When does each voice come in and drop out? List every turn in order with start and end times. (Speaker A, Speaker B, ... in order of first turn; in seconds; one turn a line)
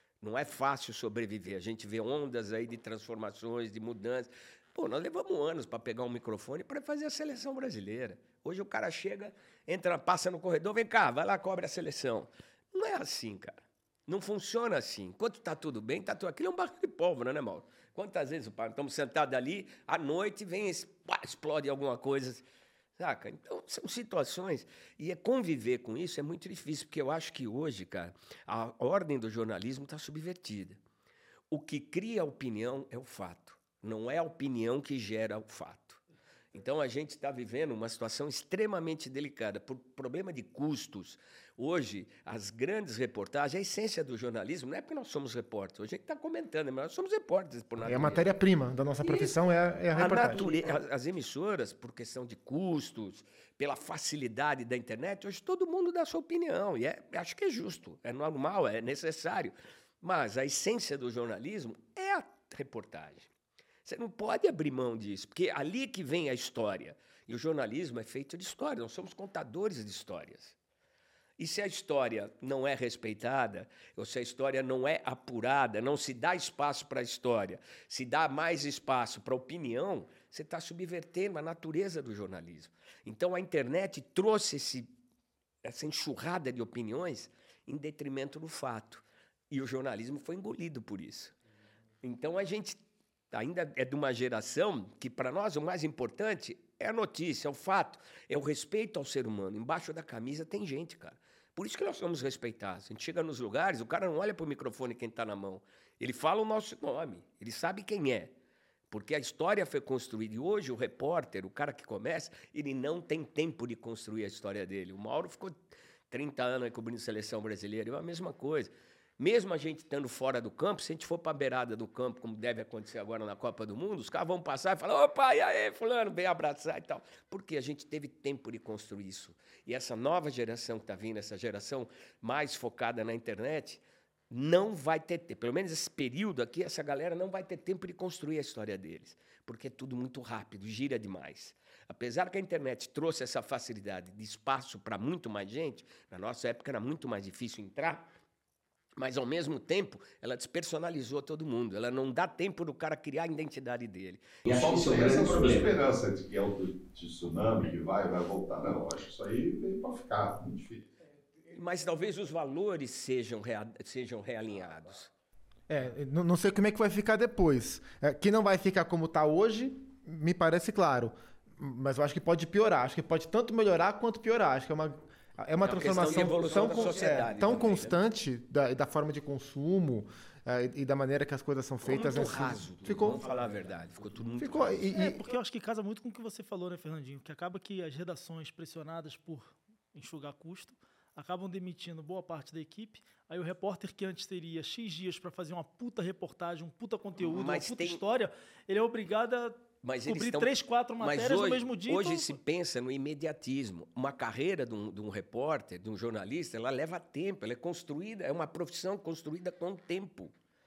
Speaker A: 0.2-22.4
Speaker A: 23.0-30.8
Speaker A: 31.5-36.0
Speaker A: 36.5-48.3
Speaker B: 47.8-50.7
Speaker A: 49.0-49.4
Speaker A: 49.9-63.3
Speaker A: 63.9-70.6
Speaker A: 71.4-84.9
Speaker A: 85.6-91.3
Speaker A: 92.0-92.8
Speaker A: 93.3-108.3
Speaker A: 108.9-148.1
Speaker A: 149.0-155.8
Speaker C: 154.5-160.9
Speaker A: 161.5-165.1
Speaker B: 165.7-183.3
Speaker A: 175.6-178.0
Speaker A: 181.8-184.9
Speaker B: 184.4-185.3
Speaker D: 184.9-202.4
Speaker A: 197.2-198.0
Speaker A: 199.8-210.3